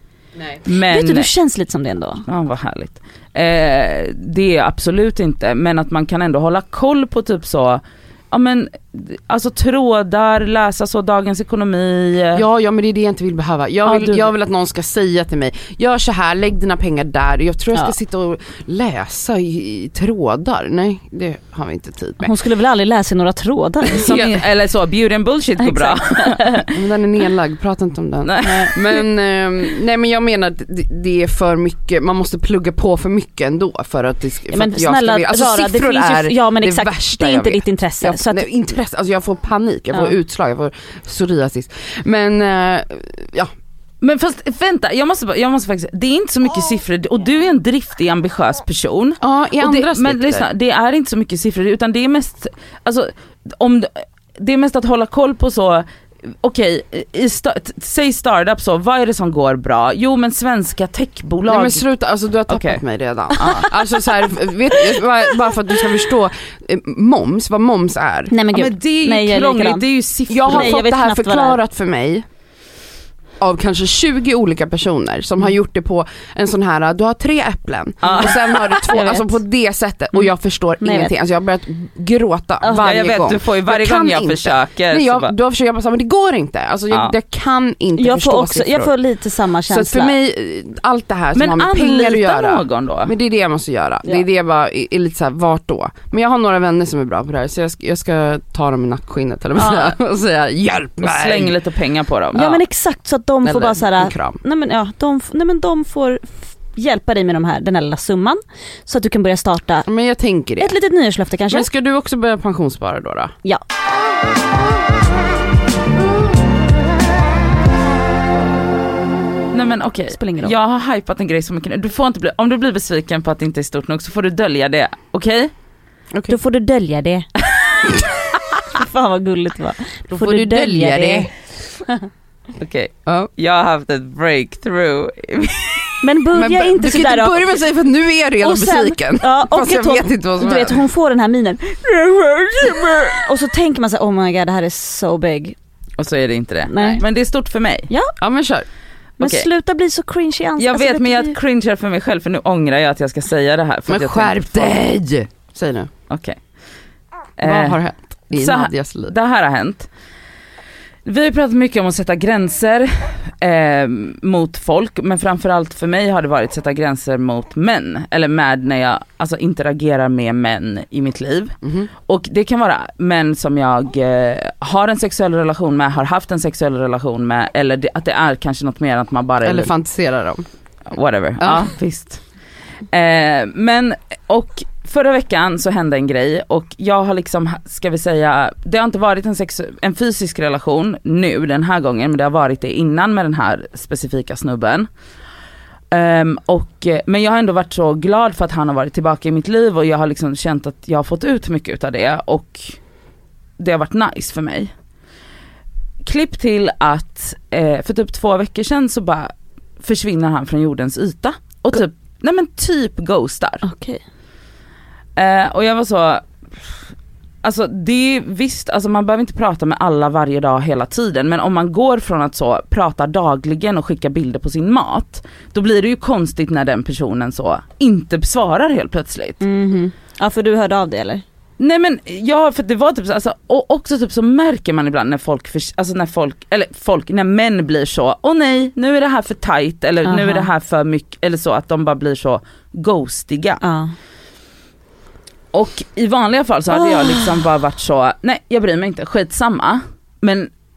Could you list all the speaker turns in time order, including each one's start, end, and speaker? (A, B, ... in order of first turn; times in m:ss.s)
0:00.7-0:01.3 A
0:00.7-0:02.2 B
0:02.3-0:12.4 A
0:12.4-0:22.3 C
0:13.9-0:14.3 A
0:22.2-0:24.2 B
0:24.0-0:26.6 A
0:24.0-0:24.4 C
0:25.6-0:26.6 B
0:26.7-0:43.5 C
0:28.2-0:28.8 A
0:28.4-0:28.7 B
0:34.5-0:38.5 B
0:44.0-1:01.8 A
0:49.2-0:50.5 C
1:01.4-1:08.3 C
1:02.5-1:02.8 A
1:03.4-1:03.7 A
1:08.3-1:09.8 B
1:08.5-1:10.7 A
1:10.3-1:12.2 C
1:10.5-1:11.6 B
1:13.4-1:28.9 C
1:18.0-1:18.5 A
1:18.9-1:19.4 B
1:20.8-1:21.1 B
1:22.8-1:25.3 A
1:28.0-1:30.2 B
1:29.7-1:41.6 C
1:31.4-1:33.1 A
1:39.6-1:40.0 A
1:41.0-1:42.6 A
1:42.3-1:49.9 B
1:43.4-1:44.4 C
1:49.9-1:50.8 C
1:50.6-1:51.7 B
1:51.5-1:53.3 C
1:59.5-2:05.5 A
2:00.1-2:00.6 B
2:06.3-2:07.3 B
2:08.7-2:11.3 B
2:10.1-2:11.3 C
2:12.6-2:16.0 A
2:16.0-2:17.4 B
2:16.3-2:20.8 C
2:18.4-2:25.6 B
2:26.0-2:27.9 A
2:26.7-2:27.0 B
2:28.2-2:28.7 C
2:29.2-2:31.4 B
2:29.2-2:29.5 A
2:30.6-2:34.8 A
2:33.9-2:35.9 C
2:36.1-2:36.4 A
2:37.4-2:37.8 A
2:37.4-2:39.1 C
2:38.3-2:39.9 A
2:41.1-2:51.5 A
2:51.6-2:51.9 C
2:52.1-2:59.7 A
2:59.4-3:00.4 C
3:00.9-3:02.2 A
3:01.4-3:01.7 C
3:02.9-3:14.9 A
3:15.9-3:22.8 A
3:23.6-3:24.7 A
3:26.0-3:33.6 A
3:33.6-3:34.0 B
3:35.2-3:36.7 A
3:37.4-3:49.4 A
3:49.4-3:51.2 B
3:51.6-4:03.6 A
4:00.1-4:00.5 B
4:03.6-4:03.9 B
4:05.5-4:10.5 A
4:06.7-4:07.3 B